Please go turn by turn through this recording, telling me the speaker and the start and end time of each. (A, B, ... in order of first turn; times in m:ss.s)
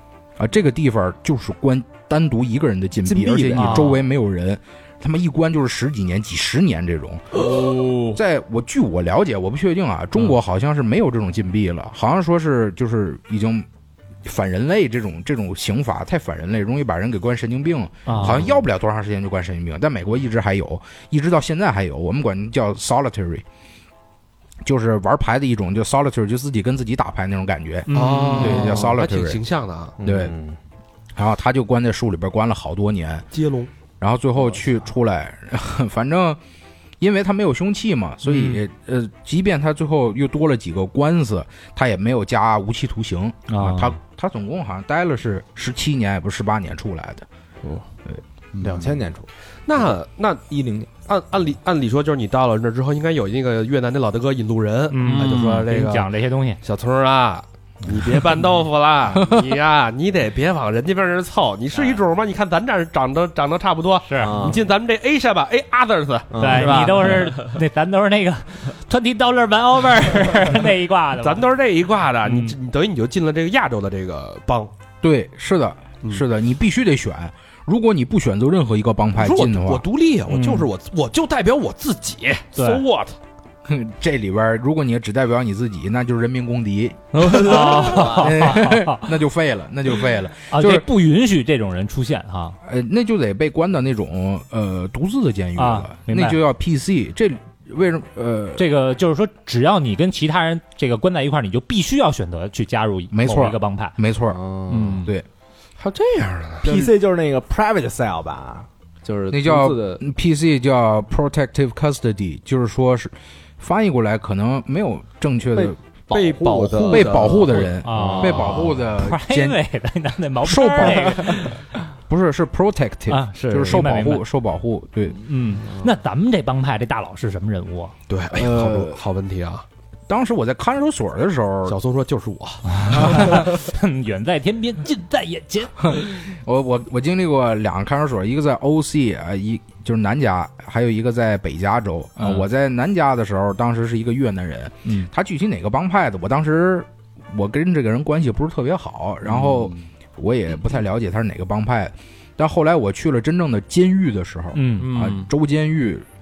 0:00.4-0:07.6 A
0:03.0-0:04.0 B
0:03.5-0:04.0 C
0:07.4-0:08.2 D
0:08.1-0:13.7 A
0:14.2-0:23.4 A
0:18.1-0:18.5 C
0:18.2-0:18.6 E
0:24.6-0:29.4 A
0:27.9-0:28.9 C
0:27.9-0:30.0 E
0:30.0-0:30.6 B
0:30.0-0:30.3 A
0:31.2-0:33.3 A
0:33.3-0:33.7 E
0:34.0-0:36.4 A
0:37.0-0:47.3 A
0:38.3-0:38.6 C
0:43.5-0:44.0 C
0:48.5-0:48.9 E
0:48.6-0:49.3 B
0:49.7-0:50.4 E
0:50.5-0:50.9 B
0:51.1-0:56.1 E
0:54.9-0:56.6 C
0:55.0-0:55.6 D
0:56.6-1:07.2 E
1:04.0-1:04.4 C
1:04.2-1:04.6 B
1:06.3-1:07.0 B
1:06.4-1:11.4 C
1:11.2-1:14.7 E
1:12.2-1:12.6 C
1:15.0-1:19.8 A
1:19.2-1:23.2 E
1:20.3-1:20.7 C
1:22.6-1:22.8 C
1:23.7-1:30.8 A
1:27.2-1:28.1 D
1:27.2-1:29.1 C
1:30.5-1:32.6 C
1:32.6-1:38.6 A
1:35.6-1:36.4 C
1:38.6-1:44.0 C
1:43.1-1:45.3 A
1:44.3-1:45.0 B
1:44.7-1:45.2 C
1:45.8-1:46.9 E
1:46.6-1:50.0 B
1:49.3-1:55.8 A
1:55.5-1:58.9 B
1:56.1-1:57.7 E
1:56.5-1:59.6 A
1:57.8-2:01.6 C
2:00.4-2:05.2 A
2:03.1-2:04.3 C
2:05.2-2:07.9 C
2:08.1-2:09.6 E
2:08.3-2:09.0 A
2:10.1-2:11.8 A
2:11.7-2:13.4 E
2:12.7-2:16.0 C
2:12.9-2:13.5 A
2:15.9-2:36.0 A
2:22.2-2:22.4 C
2:29.2-2:29.8 E
2:34.5-2:34.9 C
2:34.8-2:35.3 D